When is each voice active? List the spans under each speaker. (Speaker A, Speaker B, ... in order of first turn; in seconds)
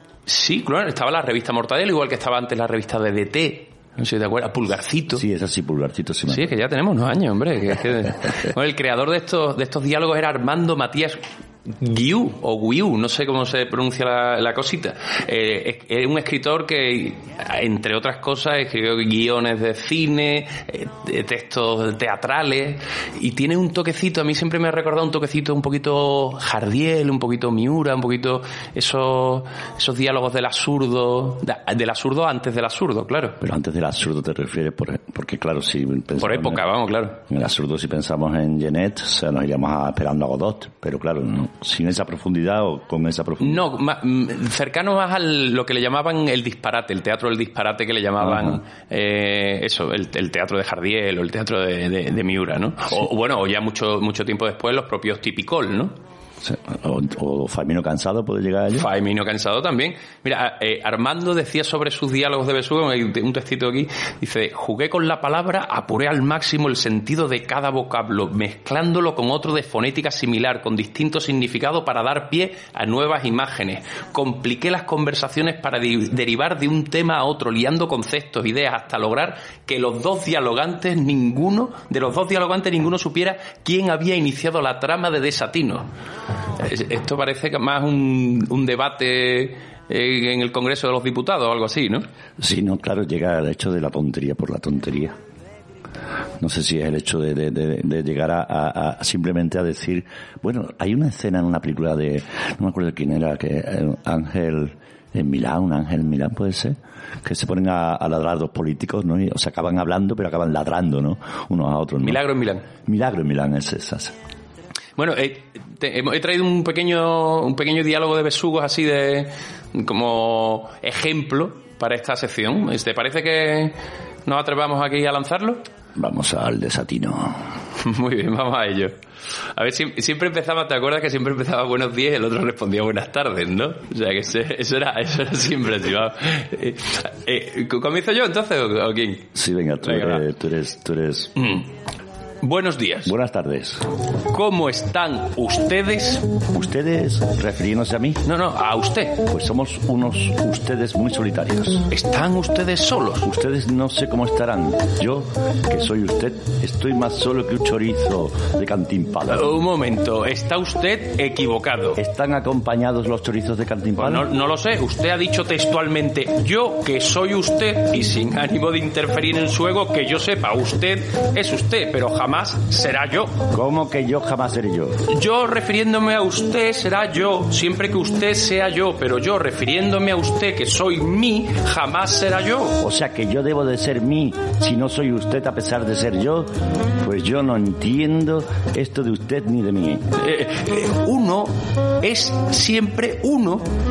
Speaker A: 0.3-5.2, 6.3-33.4, 36.2-37.2, 43.4-55.9, 58.7-85.9, 86.6-92.0, 112.0-112.7, 115.0-125.6, 127.8-128.9, 129.5-139.3, 139.8-140.2, 141.3-141.7, 142.4-143.1, 144.3-146.2, 148.2-149.2, 151.9-153.3, 159.3-162.0, 164.0-173.3, 175.1-182.8, 190.2-193.7
Speaker B: 5.1-6.5, 33.4-36.6, 37.2-43.6, 48.2-48.6, 56.4-58.9, 92.4-95.2, 96.4-112.2, 112.8-114.1, 125.9-127.4, 139.3-141.3, 143.0-143.8, 146.5-148.2, 149.2-151.9, 153.2-159.5, 162.0-164.3, 173.5-175.0, 182.8-190.1